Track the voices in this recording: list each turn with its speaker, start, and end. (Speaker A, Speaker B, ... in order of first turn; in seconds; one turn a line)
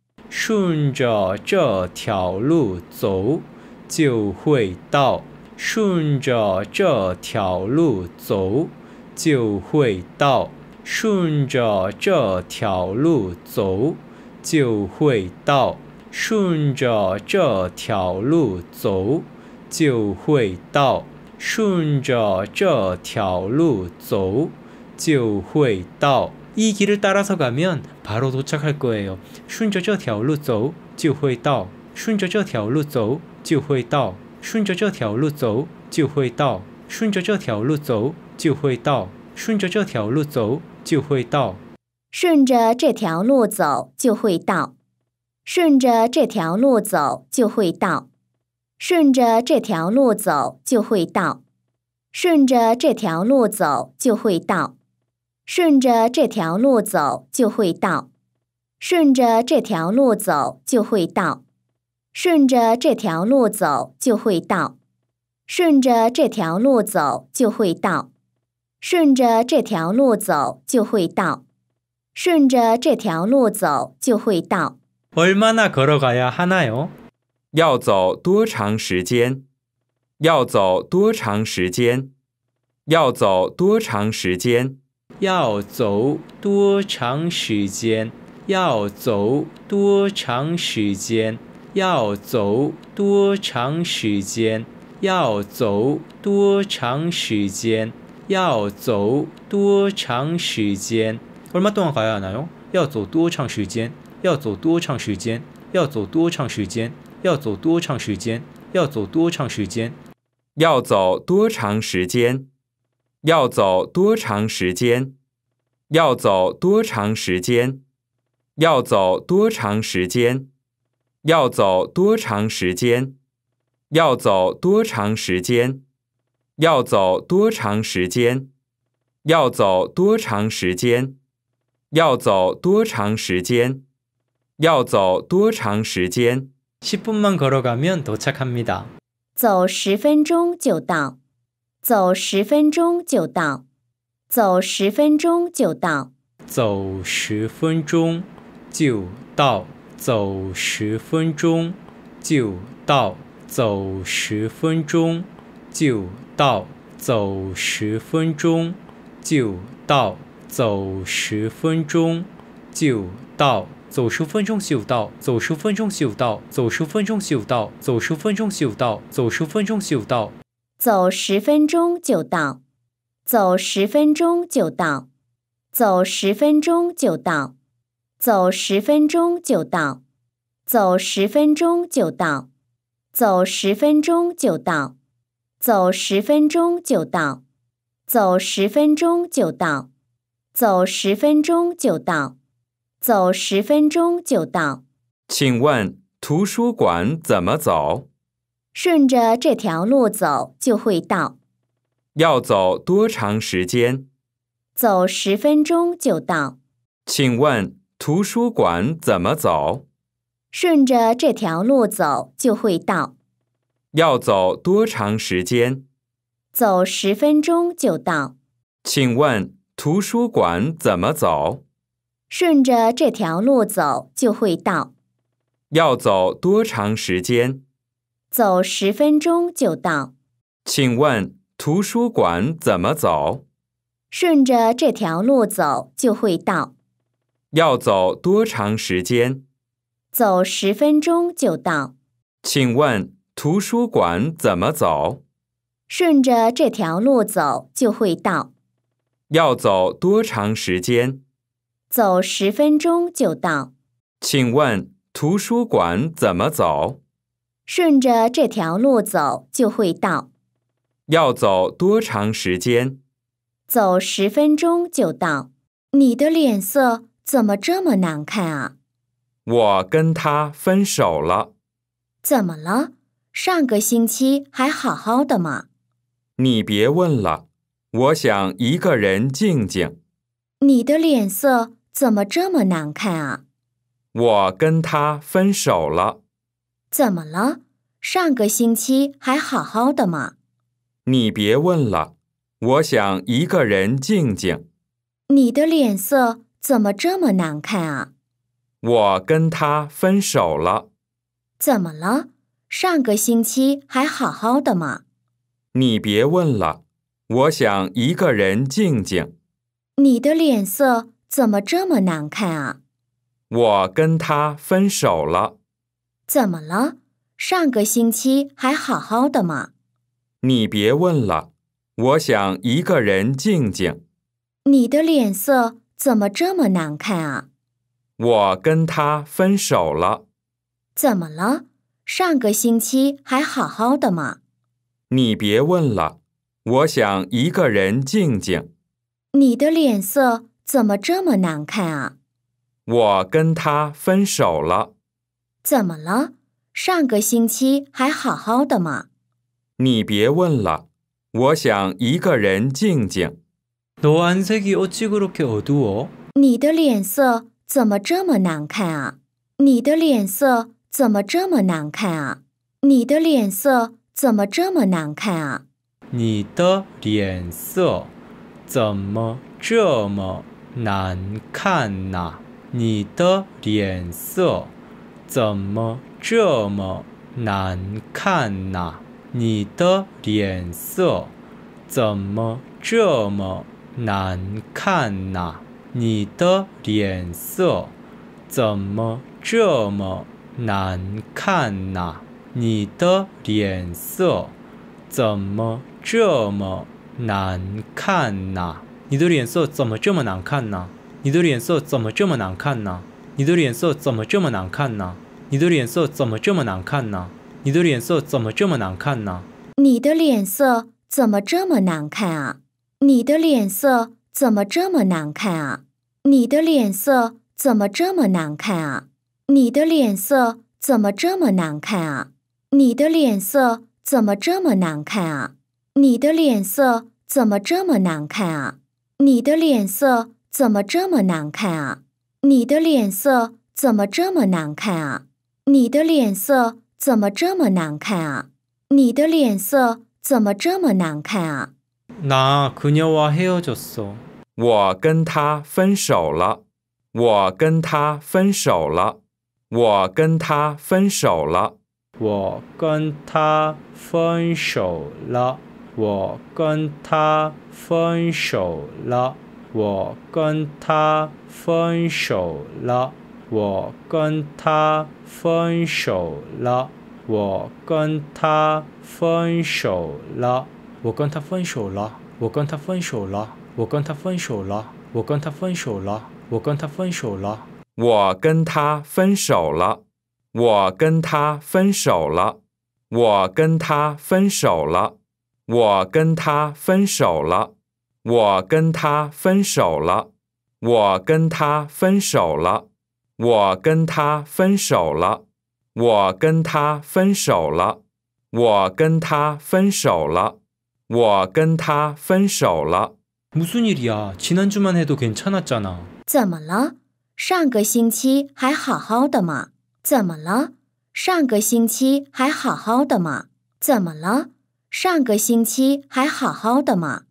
Speaker A: 0.3-41.6
Speaker B: 42.1-44.7
Speaker B: 45.5-48.1
Speaker B: 48.8-51.4
Speaker B: 52.1-54.7
Speaker B: 55.5-58.1
Speaker B: 58.8-61.4
Speaker B: 62.1-64.8
Speaker B: 65.5-68.1
Speaker B: 68.8-71.4
Speaker B: 72.2-74.8
Speaker A: 75.1-76.9
Speaker C: 77.5-79.5
Speaker C: 80.2-82.1
Speaker C: 82.9-84.8
Speaker A: 85.2-110.0
Speaker C: 110.6-112.5
Speaker C: 113.2-115.2
Speaker C: 115.9-117.8
Speaker C: 118.6-120.5
Speaker C: 121.2-123.2
Speaker C: 123.9-125.8
Speaker C: 126.6-128.5
Speaker C: 129.2-131.2
Speaker C: 131.9-133.8
Speaker C: 134.6-136.5
Speaker A: 136.8-138.9
Speaker B: 139.4-141.2
Speaker B: 141.8-143.6
Speaker B: 144.3-146.1
Speaker A: 146.5-170.4
Speaker B: 170.8-172.6
Speaker B: 173.3-175.1
Speaker B: 175.7-177.5
Speaker B: 178.2-180.0
Speaker B: 180.7-182.5
Speaker B: 183.2-184.9
Speaker B: 185.6-187.4
Speaker B: 188.1-189.9
Speaker B: 190.6-192.3
Speaker B: 193.0-194.8
Speaker C: 195.3-198.1
Speaker B: 198.8-201.3
Speaker C: 202.2-204.1
Speaker B: 204.8-206.6
Speaker C: 207.1-209.8
Speaker B: 210.5-213.1
Speaker C: 213.9-215.8
Speaker B: 216.5-218.3
Speaker C: 218.8-221.6
Speaker B: 222.3-224.9
Speaker C: 225.7-227.6
Speaker B: 228.3-230.1
Speaker C: 230.7-233.4
Speaker B: 234.1-236.7
Speaker C: 237.5-239.4
Speaker B: 240.1-241.9
Speaker C: 242.4-245.2
Speaker B: 245.9-248.5
Speaker C: 249.3-251.2
Speaker B: 251.9-253.7
Speaker C: 254.2-257.0
Speaker B: 257.7-260.3
Speaker C: 261.1-263.0
Speaker B: 263.7-268.7
Speaker C: 269.5-271.5
Speaker B: 272.2-275.6
Speaker C: 276.4-280.0
Speaker B: 280.6-283.4
Speaker C: 284.1-286.2
Speaker B: 286.9-290.3
Speaker C: 291.1-294.6
Speaker B: 295.3-298.1
Speaker C: 298.8-300.9
Speaker B: 301.6-305.0
Speaker C: 305.7-309.3
Speaker B: 310.0-312.8
Speaker C: 313.5-315.6
Speaker B: 316.3-319.7
Speaker C: 320.4-324.0
Speaker B: 324.6-327.4
Speaker C: 328.2-330.2
Speaker B: 331.0-334.4
Speaker C: 335.1-338.7
Speaker B: 339.3-342.1
Speaker C: 342.9-344.9
Speaker B: 345.6-349.1
Speaker C: 349.8-353.4
Speaker A: 354.0-356.1
Speaker B: 356.4-365.6
Speaker A: 366.1-368.1
Speaker A: 368.7-374.7
Speaker A: 375.3-381.3
Speaker A: 381.9-387.9
Speaker A: 388.5-394.5
Speaker A: 395.1-409.5
Speaker B: 409.8-441.7
Speaker A: 442.2-444.2
Speaker C: 444.6-446.6
Speaker C: 447.1-449.2
Speaker C: 449.7-451.8
Speaker A: 452.2-477.7
Speaker C: 478.0-480.0
Speaker C: 480.5-482.6
Speaker C: 483.1-485.1
Speaker C: 485.7-487.7
Speaker C: 488.2-490.3
Speaker C: 490.8-492.9
Speaker C: 493.4-495.4
Speaker C: 495.9-498.0
Speaker C: 498.5-500.6
Speaker C: 501.1-503.1
Speaker A: 503.5-506.1
Speaker B: 506.3-517.2